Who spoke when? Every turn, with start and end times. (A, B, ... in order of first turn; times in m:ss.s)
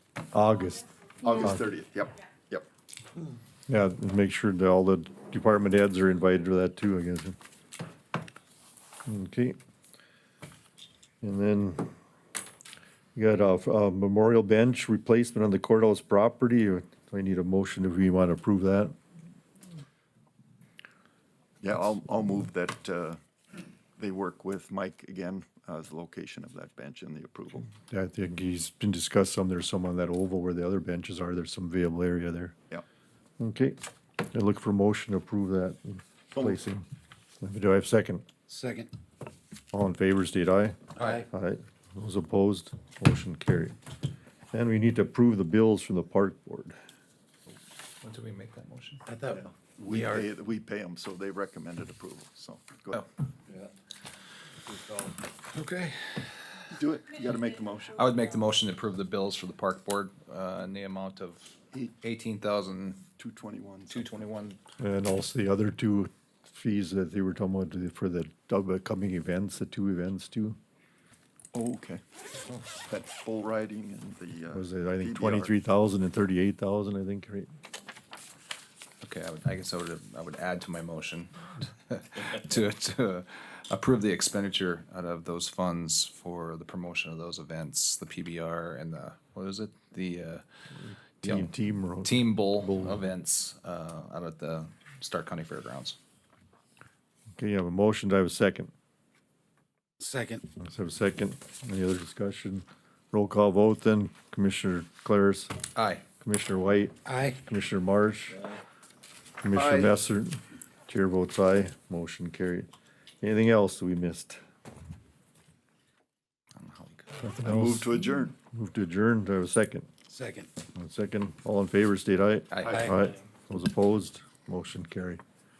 0:00.3-0:00.9 A
0:01.2-0:02.7 B
0:01.4-0:01.6 A
0:03.7-0:07.4 A
0:09.1-0:09.6 A
0:11.2-0:11.9 A
0:13.2-0:18.9 A
0:21.6-0:23.2 B
0:24.0-0:27.7 B
0:27.7-0:32.6 A
0:33.4-0:33.8 A
0:34.3-0:36.8 A
0:36.3-0:36.6 B
0:37.4-0:38.2 A
0:38.5-0:38.9 C
0:39.7-0:43.8 A
0:41.0-0:41.3 D
0:44.5-0:46.8 A
0:48.0-0:49.2 D
0:49.1-0:49.4 C
0:49.3-0:53.0 B
0:49.9-0:50.3 D
0:55.5-0:56.8 D
0:56.7-0:58.0 B
0:57.9-1:03.0 D
1:03.2-1:04.0 B
1:03.9-1:04.6 D
1:04.8-1:10.6 A
1:11.5-1:12.0 B
1:12.8-1:15.5 B
1:14.5-1:17.5 A
1:19.0-1:30.4 D
1:31.2-1:31.5 D
1:31.2-1:33.0 A
1:32.0-1:36.0 D
1:37.4-1:38.7 A
1:40.0-1:40.4 C
1:40.6-1:45.5 A
1:45.8-1:46.0 D
1:46.2-1:48.4 A
1:47.0-1:47.4 C
1:49.4-1:52.7 A
1:49.5-1:49.9 C
1:53.2-1:54.4 A
1:56.6-1:57.3 D
1:57.2-1:59.9 A
1:57.4-1:58.4 B
2:00.1-2:00.5 C
2:00.8-2:05.2 A
2:02.5-2:02.9 D
2:02.7-2:03.0 C